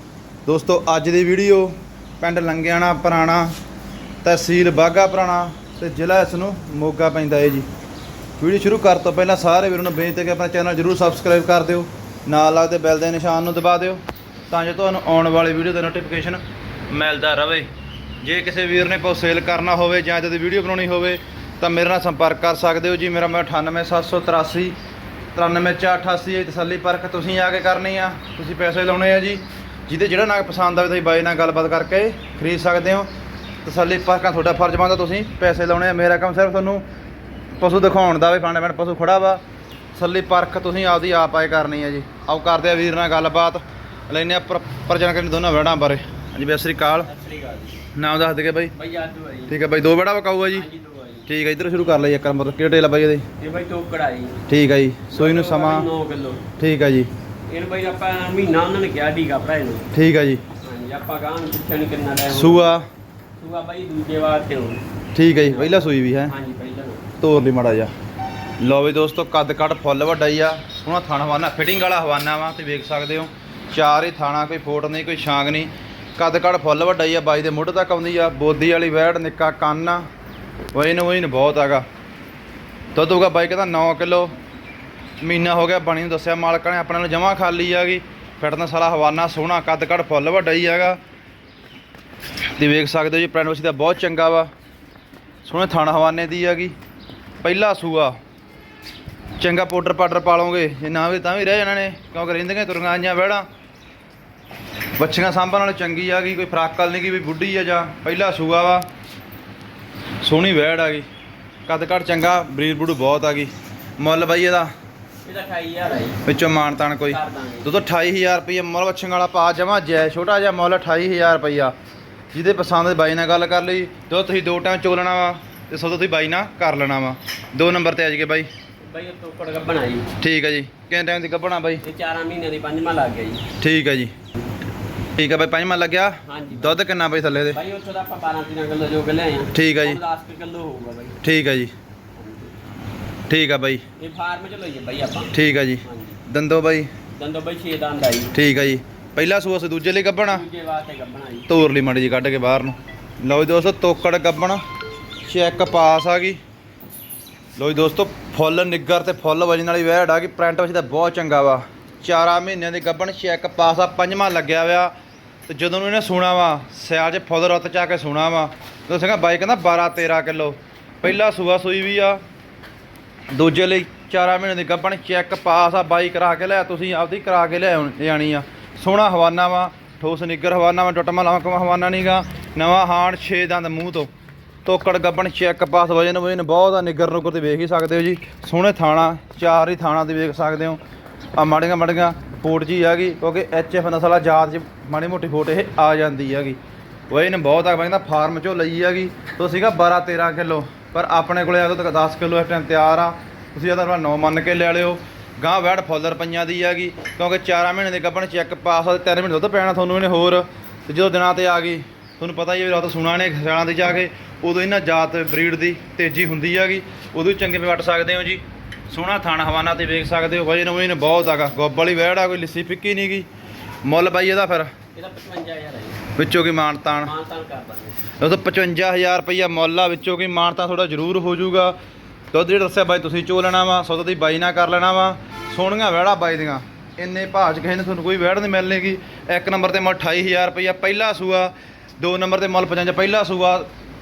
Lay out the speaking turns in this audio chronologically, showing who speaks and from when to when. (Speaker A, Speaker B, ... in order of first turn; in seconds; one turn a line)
Speaker A: 0.5-3.5
Speaker A: 4.2-7.7
Speaker A: 8.4-17.7
Speaker A: 18.2-24.7
Speaker A: 25.3-33.1
Speaker A: 33.6-36.8
Speaker A: 37.6-39.4
Speaker A: 39.9-47.1
Speaker B: 47.0-47.8
Speaker A: 47.9-48.7
Speaker B: 48.7-49.5
Speaker A: 49.5-50.7
Speaker B: 50.5-51.3
Speaker A: 51.3-53.2
Speaker B: 53.4-54.4
Speaker A: 54.5-55.9
Speaker B: 55.1-56.4
Speaker A: 56.6-57.1
Speaker B: 57.5-59.9
Speaker A: 59.9-60.4
Speaker B: 60.6-62.7
Speaker A: 62.3-62.9
Speaker B: 63.4-64.8
Speaker A: 65.1-66.3
Speaker B: 65.3-67.0
Speaker A: 67.2-67.9
Speaker A: 68.6-80.0
Speaker A: 80.7-81.8
Speaker A: 82.9-84.3
Speaker A: 85.2-91.0
Speaker A: 92.6-94.5
Speaker A: 95.4-96.8
Speaker A: 97.4-98.2
Speaker A: 99.4-103.5
Speaker A: 105.0-108.9
Speaker A: 110.2-111.0
Speaker A: 111.7-114.7
Speaker B: 115.2-116.2
Speaker A: 116.2-121.7
Speaker B: 117.0-117.7
Speaker A: 122.3-128.5
Speaker B: 128.8-130.1
Speaker A: 130.2-131.8
Speaker B: 131.8-133.4
Speaker A: 133.6-134.1
Speaker A: 135.2-137.6
Speaker B: 136.3-136.8
Speaker B: 137.5-141.2
Speaker A: 139.5-140.0
Speaker A: 141.2-141.7
Speaker B: 142.2-142.5
Speaker A: 143.3-143.8
Speaker B: 144.0-146.2
Speaker A: 145.3-146.9
Speaker B: 147.2-148.3
Speaker A: 148.3-150.4
Speaker B: 150.2-151.5
Speaker A: 151.5-154.6
Speaker A: 155.2-156.4
Speaker A: 157.6-164.9
Speaker A: 165.5-172.2
Speaker A: 173.3-184.1
Speaker A: 184.6-190.8
Speaker A: 191.3-196.6
Speaker A: 197.1-223.3
Speaker A: 223.8-224.7
Speaker B: 224.9-226.0
Speaker A: 226.1-227.1
Speaker B: 227.0-228.0
Speaker A: 228.2-231.7
Speaker A: 232.3-243.7